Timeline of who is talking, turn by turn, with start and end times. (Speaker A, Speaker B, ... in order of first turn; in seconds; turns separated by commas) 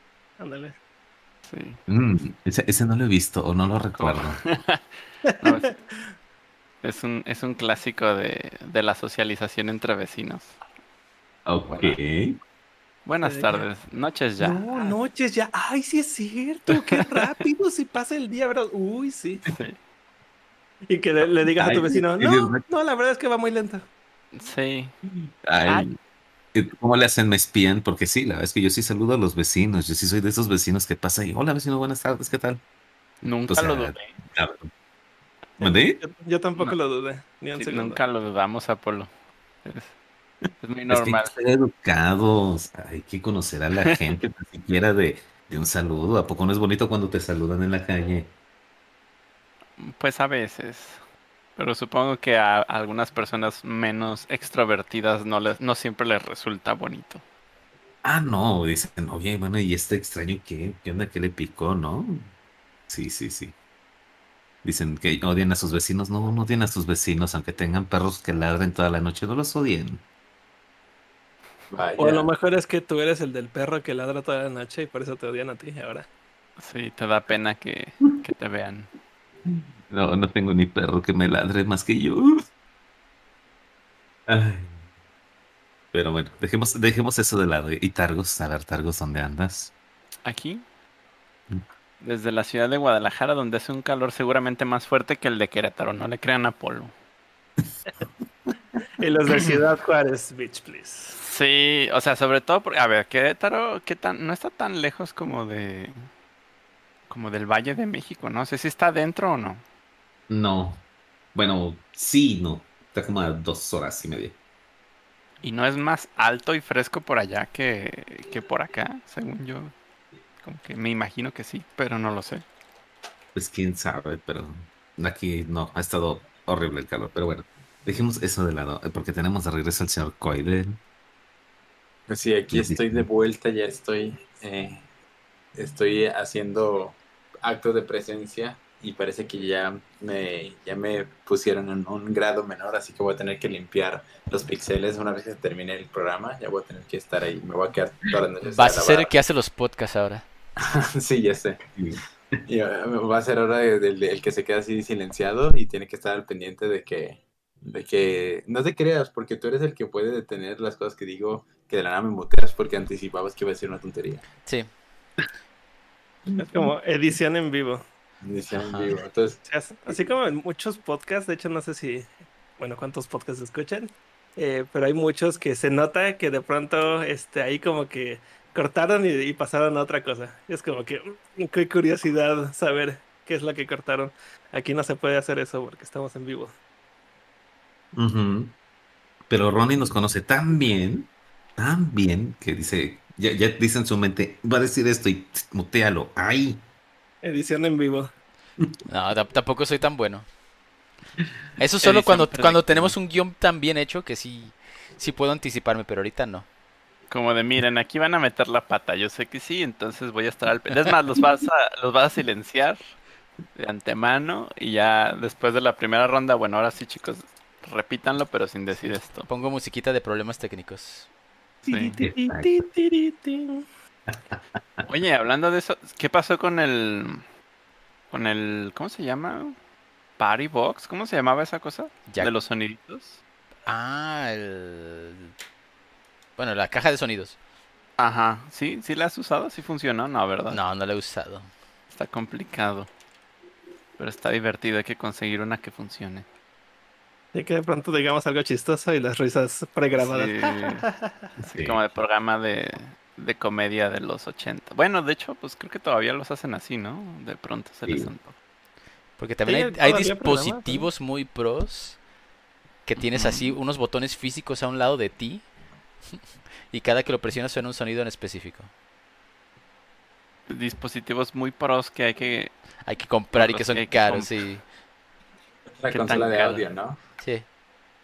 Speaker A: 0.4-0.7, Speaker B: 1.5-1.8, Speaker C: 1.9-4.4, Speaker B: 3.9-4.8, Speaker A: 5.3-6.0, Speaker B: 5.4-5.8, Speaker B: 6.8-10.6, Speaker C: 11.4-12.4, Speaker B: 13.1-14.9, Speaker A: 13.2-13.6, Speaker A: 14.4-19.5, Speaker B: 16.7-17.3, Speaker B: 19.5-19.8, Speaker A: 20.9-23.9, Speaker C: 21.6-22.6, Speaker B: 24.3-24.9, Speaker C: 25.4-26.0, Speaker C: 26.5-32.6, Speaker B: 33.2-34.2, Speaker C: 33.5-34.7, Speaker A: 35.6-38.0, Speaker C: 35.6-36.0, Speaker B: 37.5-39.1, Speaker B: 39.6-39.9, Speaker B: 40.6-41.3, Speaker C: 40.9-48.3, Speaker B: 49.8-51.0, Speaker B: 51.5-57.2, Speaker C: 58.0-62.3, Speaker C: 62.9-63.5, Speaker C: 64.6-70.0, Speaker D: 71.7-72.3, Speaker A: 72.0-76.1, Speaker B: 76.6-78.9, Speaker C: 79.9-82.4, Speaker C: 84.3-84.8, Speaker C: 85.9-89.7, Speaker B: 90.2-90.6, Speaker B: 92.0-96.9, Speaker A: 99.0-101.2, Speaker B: 101.2-105.9, Speaker B: 107.1-109.6, Speaker C: 110.3-110.8, Speaker C: 111.3-114.3, Speaker B: 115.4-119.7, Speaker B: 120.4-122.4, Speaker C: 123.3-130.8, Speaker D: 132.1-134.8, Speaker C: 132.5-133.0, Speaker D: 135.6-149.1, Speaker E: 148.4-150.3, Speaker D: 150.6-151.6, Speaker C: 151.8-152.0, Speaker D: 152.4-164.2, Speaker E: 164.4-164.7, Speaker A: 166.4-167.8, Speaker D: 168.2-170.1, Speaker E: 168.6-168.9, Speaker A: 169.4-186.5, Speaker C: 187.9-188.5, Speaker C: 189.3-196.6, Speaker A: 197.2-198.1, Speaker E: 198.9-200.3, Speaker E: 201.6-206.4, Speaker B: 201.8-202.9, Speaker B: 207.1-212.8, Speaker B: 213.6-219.3, Speaker E: 219.2-221.1, Speaker A: 221.6-223.6, Speaker B: 221.7-222.0, Speaker C: 222.0-222.5, Speaker C: 224.1-224.4, Speaker B: 224.8-227.2, Speaker B: 228.1-229.6, Speaker B: 230.2-233.2, Speaker E: 232.1-232.3, Speaker E: 233.7-235.3, Speaker E: 236.4-237.4, Speaker B: 238.0-240.6, Speaker E: 240.5-241.5, Speaker B: 241.9-242.9, Speaker B: 244.0-246.2, Speaker A: 247.3-251.1, Speaker B: 249.9-250.8, Speaker B: 251.4-258.3, Speaker C: 251.5-251.8, Speaker E: 259.2-262.0, Speaker A: 259.4-260.9, Speaker E: 262.9-265.5, Speaker B: 263.0-263.5, Speaker E: 266.7-268.7, Speaker B: 270.5-272.5, Speaker E: 272.8-274.6, Speaker B: 273.3-274.3, Speaker D: 275.8-277.0, Speaker B: 275.9-276.6, Speaker E: 276.0-276.6, Speaker E: 277.2-277.5